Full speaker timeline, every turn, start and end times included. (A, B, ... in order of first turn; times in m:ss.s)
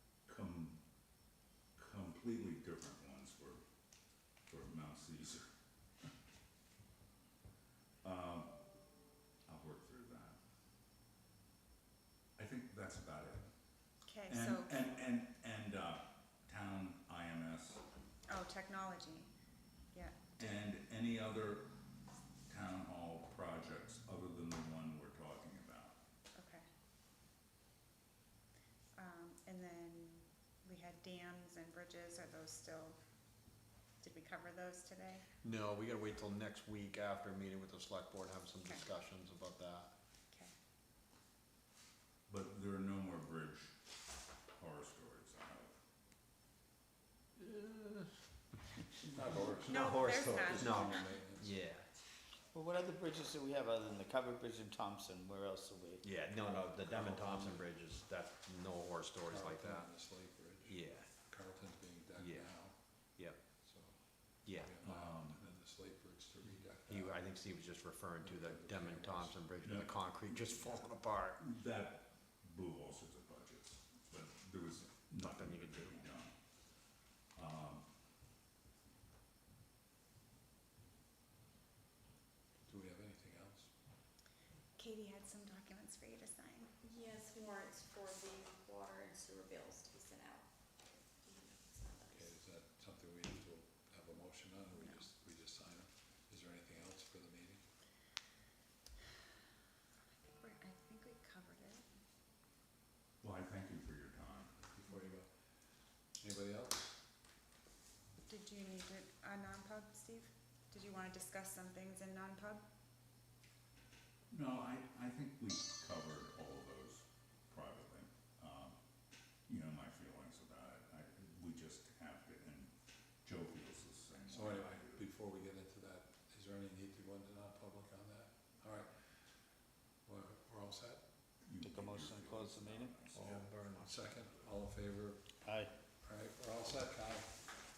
0:00.2-0:00.8 A
0:01.8-0:03.6 A
0:04.5-0:05.5 A
0:08.0-0:08.5 A
0:09.5-0:10.4 A
0:12.4-0:13.5 A
0:14.0-0:14.9 B
0:14.3-0:17.8 A
0:18.3-0:19.3 B
0:19.9-0:20.6 B
0:20.4-0:21.7 A
0:22.5-0:26.0 A
0:26.3-0:26.6 B
0:29.0-0:33.0 B
0:34.0-0:35.2 B
0:35.4-0:39.9 C
0:42.3-0:43.8 A
0:44.5-0:45.8 A
0:47.4-0:48.0 C
0:49.2-0:51.5 D
0:49.4-0:51.8 C
0:49.6-0:51.2 B
0:52.5-0:56.0 E
0:56.0-0:59.9 C
0:59.3-1:02.7 D
1:00.6-1:01.1 C
1:02.2-1:02.5 C
1:03.2-1:03.4 C
1:03.6-1:04.0 D
1:04.4-1:04.7 C
1:04.6-1:07.2 D
1:04.8-1:05.4 A
1:06.9-1:11.4 C
1:08.2-1:09.4 D
1:09.6-1:10.8 A
1:11.4-1:16.4 A
1:15.2-1:16.0 C
1:17.3-1:17.8 A
1:22.6-1:23.7 D
1:24.8-1:26.8 B
1:26.8-1:30.5 F
1:31.2-1:32.4 F
1:32.2-1:37.6 D
1:34.7-1:35.1 B
1:40.2-1:41.8 B
1:43.2-1:44.5 A
1:44.7-1:45.3 D
1:46.2-1:47.0 D
1:48.3-1:52.6 B
1:54.3-1:58.8 A
1:59.4-2:05.0 A
2:04.3-2:09.1 D
2:10.0-2:11.0 D
2:11.4-2:14.5 A
2:11.6-2:13.1 E
2:13.1-2:14.1 C
2:13.8-2:15.2 D
2:15.4-2:15.7 E
2:16.0-2:17.3 D